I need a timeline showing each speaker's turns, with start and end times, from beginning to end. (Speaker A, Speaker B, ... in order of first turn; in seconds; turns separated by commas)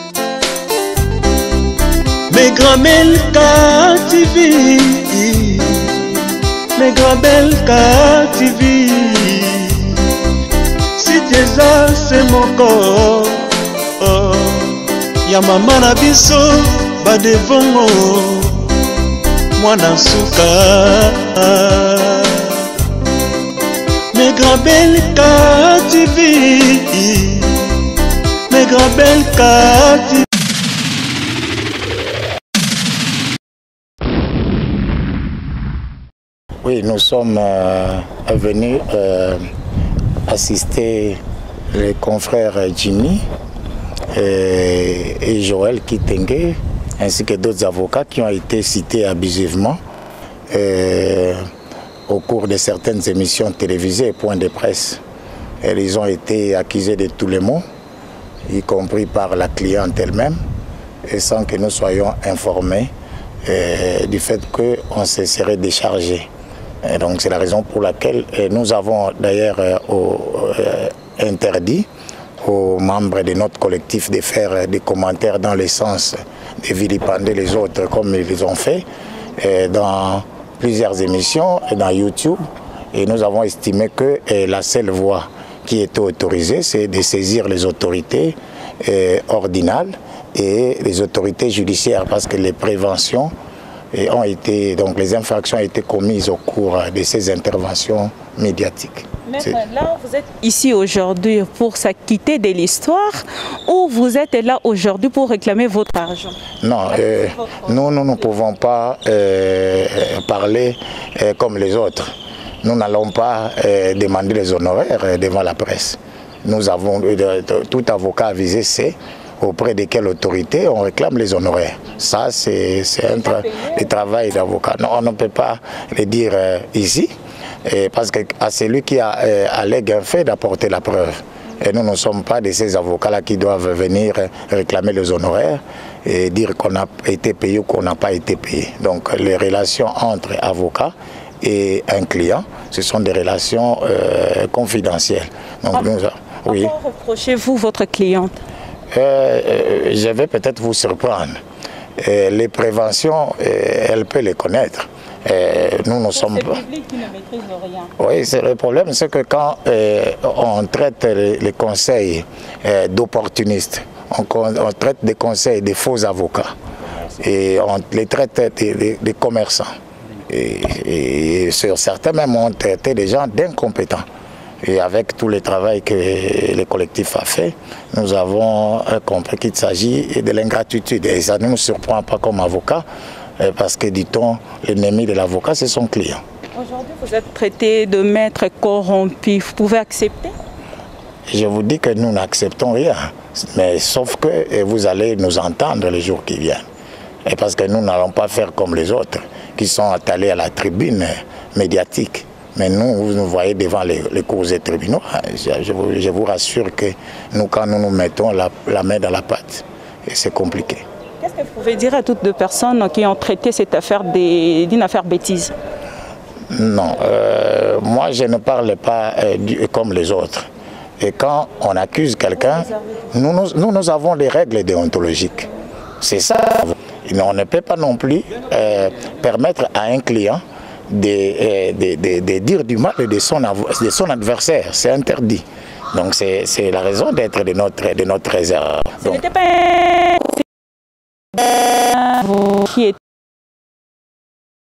Speaker A: 2.3-5.9, Speaker A: 6.8-10.0, Speaker A: 10.9-18.7, Speaker A: 19.6-22.6, Speaker A: 24.1-27.7, Speaker A: 28.5-30.2, Speaker B: 36.6-39.5, Speaker B: 40.3-41.2, Speaker B: 41.7-43.2, Speaker B: 44.1-49.8, Speaker B: 50.5-51.4, Speaker B: 52.1-55.0, Speaker B: 55.6-57.6, Speaker B: 58.5-60.4, Speaker B: 61.0-62.9, Speaker B: 63.5-66.3, Speaker B: 66.8-71.9, Speaker B: 72.4-78.8, Speaker B: 79.4-93.3, Speaker B: 93.9-99.5, Speaker C: 99.2-106.4, Speaker B: 106.6-112.1, Speaker C: 106.9-107.9, Speaker B: 112.6-127.1, Speaker C: 123.1-123.9, Speaker B: 127.6-146.7, Speaker C: 146.5-148.4, Speaker B: 148.9-151.4, Speaker B: 152.0-156.6, Speaker C: 156.1-157.9, Speaker B: 158.0-166.5, Speaker B: 167.1-169.7, Speaker B: 170.2-174.1, Speaker B: 174.6-182.8, Speaker B: 183.4-186.2, Speaker C: 186.5-190.3, Speaker B: 191.3-196.6, Speaker B: 197.2-210.8, Speaker C: 211.2-215.5, Speaker B: 216.5-220.5, Speaker B: 221.0-225.5, Speaker B: 226.0-239.2, Speaker C: 239.0-240.4, Speaker C: 241.3-243.0